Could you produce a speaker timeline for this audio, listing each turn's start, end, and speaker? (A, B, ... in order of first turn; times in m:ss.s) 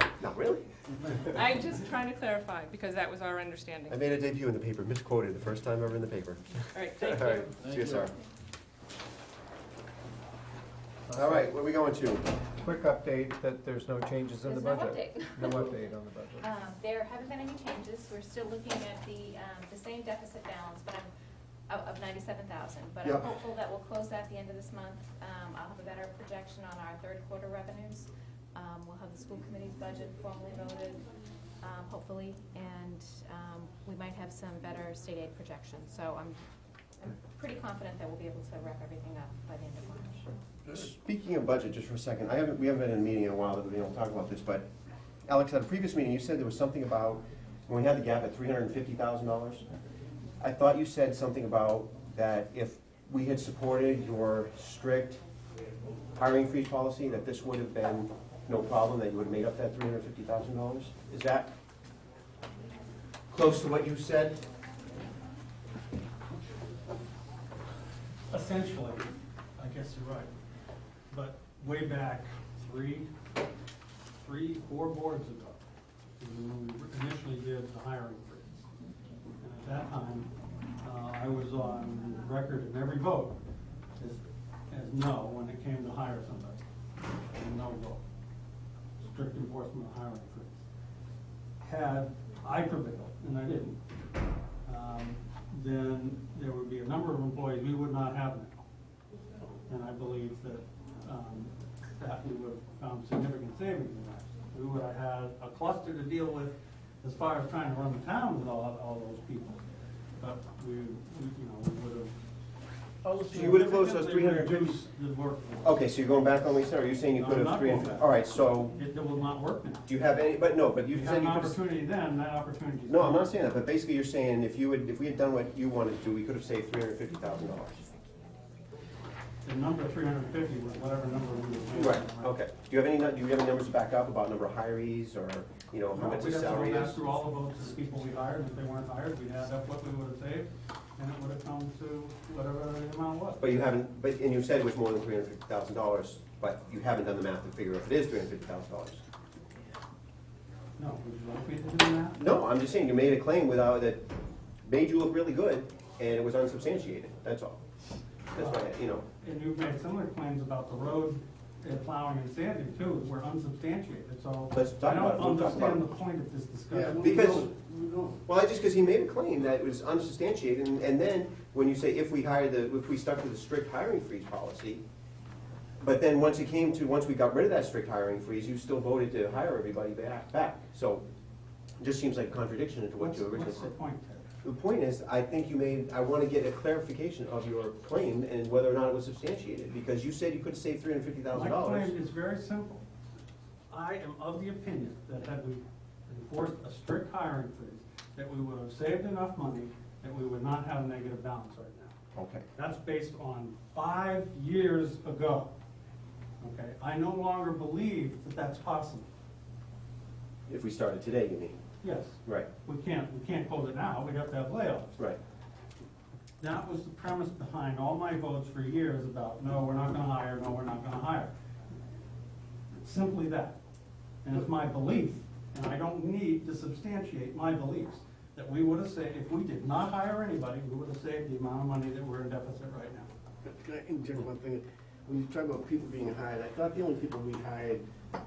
0:00.2-0:01.4 A
0:01.3-0:04.0 B
0:03.9-0:08.1 A
0:06.7-0:07.5 B
0:11.1-0:11.5 C
0:11.1-0:12.2 A
0:12.6-0:16.4 C
0:14.4-0:15.8 D
0:16.4-0:21.1 D
0:21.7-0:31.0 D
0:31.6-0:36.4 D
0:37.0-0:40.3 D
0:40.6-0:44.7 A
0:45.3-0:49.6 A
0:50.4-0:55.2 A
0:56.2-1:01.5 A
1:03.3-1:04.4 A
1:08.3-1:10.3 E
1:11.1-1:13.1 E
1:14.2-1:15.6 E
1:16.2-1:18.7 E
1:19.4-1:20.3 E
1:20.8-1:23.4 E
1:24.0-1:26.6 E
1:27.3-1:28.0 E
1:29.0-1:30.6 E
1:31.6-1:33.8 E
1:34.6-1:38.6 E
1:39.7-1:49.6 E
1:50.2-1:52.1 E
1:53.1-1:55.8 E
1:53.3-1:54.8 A
1:55.6-1:58.7 A
1:57.1-1:59.9 E
1:59.9-2:01.6 A
2:00.9-2:03.2 E
2:02.9-2:07.8 A
2:09.4-2:12.3 E
2:11.7-2:17.0 A
2:15.9-2:23.5 E
2:23.4-2:29.0 A
2:30.8-2:32.2 E
2:32.2-2:34.0 A
2:34.6-2:37.6 A
2:38.3-2:39.0 A
2:38.4-2:38.7 E
2:39.2-2:47.5 E
2:44.5-2:45.8 A
2:46.7-2:48.2 F
2:47.0-2:47.5 A
2:48.2-2:54.8 A
2:55.8-3:01.0 A
3:01.8-3:03.7 A
3:03.0-3:04.3 E
3:04.4-3:11.9 A
3:11.3-3:12.8 E
3:13.7-3:21.9 E
3:22.1-3:22.4 A
3:22.5-3:25.5 E
3:26.4-3:29.1 E
3:30.5-3:31.6 A
3:31.8-3:35.0 E
3:36.4-3:41.3 E
3:42.7-3:43.6 E
3:44.2-3:53.1 E
3:53.4-3:57.8 F